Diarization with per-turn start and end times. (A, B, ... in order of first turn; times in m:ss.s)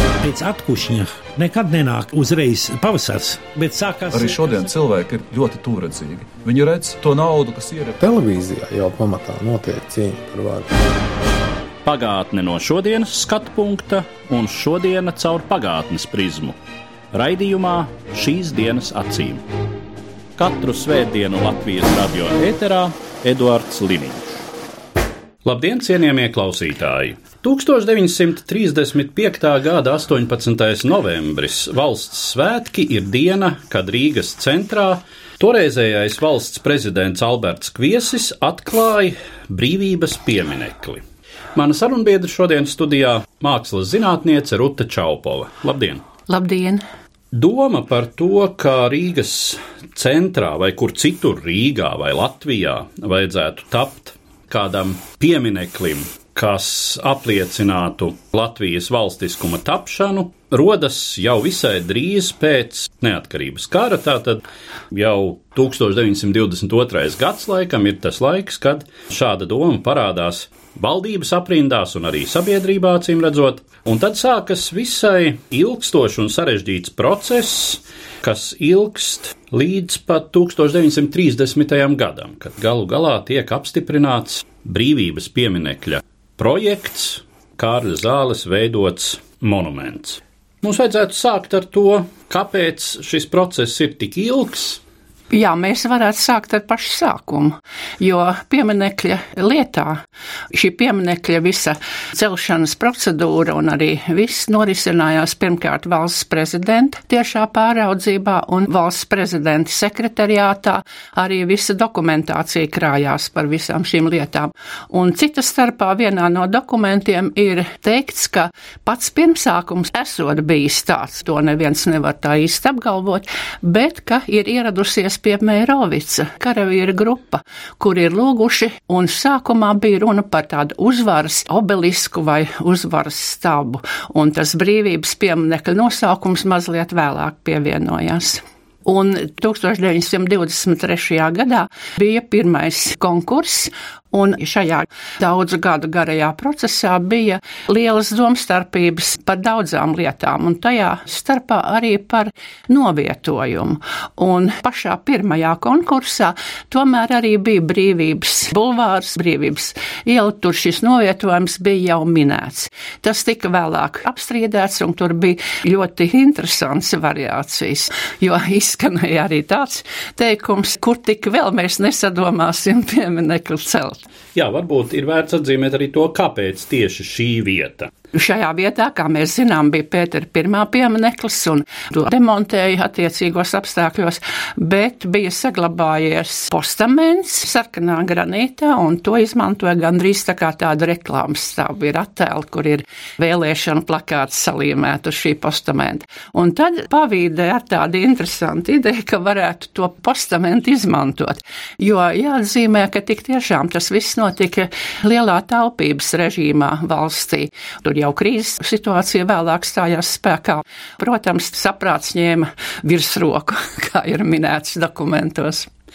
0:00.2-0:04.4 A
0:04.1-0:08.0 B
0:08.0-0:10.7 C
0:11.8-0:16.6 D
0:17.1-0:19.4 D
0:20.4-0:24.3 D
0:25.4-0:41.0 D
0:41.5-0:46.0 D
0:46.3-0:46.8 E
0:47.3-1:34.8 D
1:35.3-1:40.0 E
1:40.5-2:54.0 E
2:54.3-2:57.9 D
2:58.1-3:35.7 E